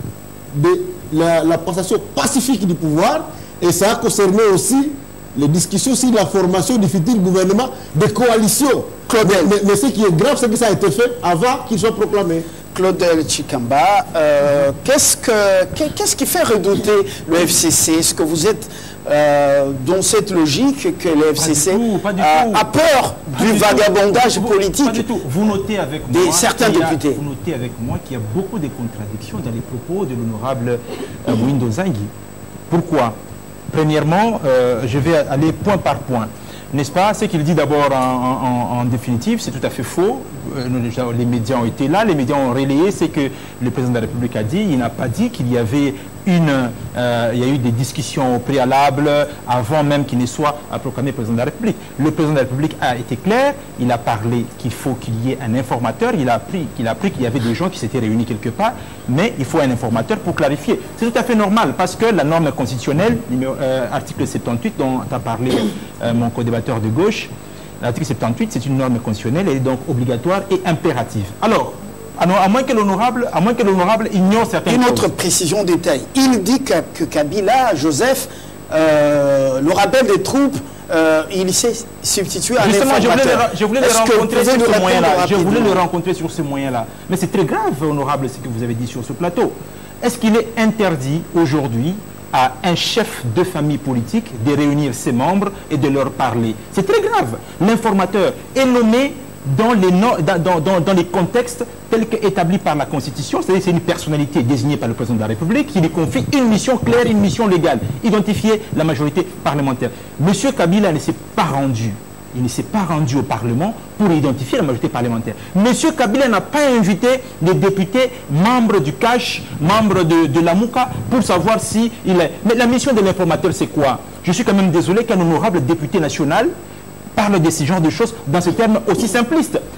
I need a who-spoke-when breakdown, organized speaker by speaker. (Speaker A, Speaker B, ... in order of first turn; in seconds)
Speaker A: 0.5-12.5
Speaker B: 9.1-9.5, 12.7-25.1, 26.1-27.2, 74.7-85.8
Speaker C: 21.4-22.7, 23.3-32.1, 32.7-33.2, 33.7-67.3, 67.8-75.1, 82.6-126.5, 127.2-129.6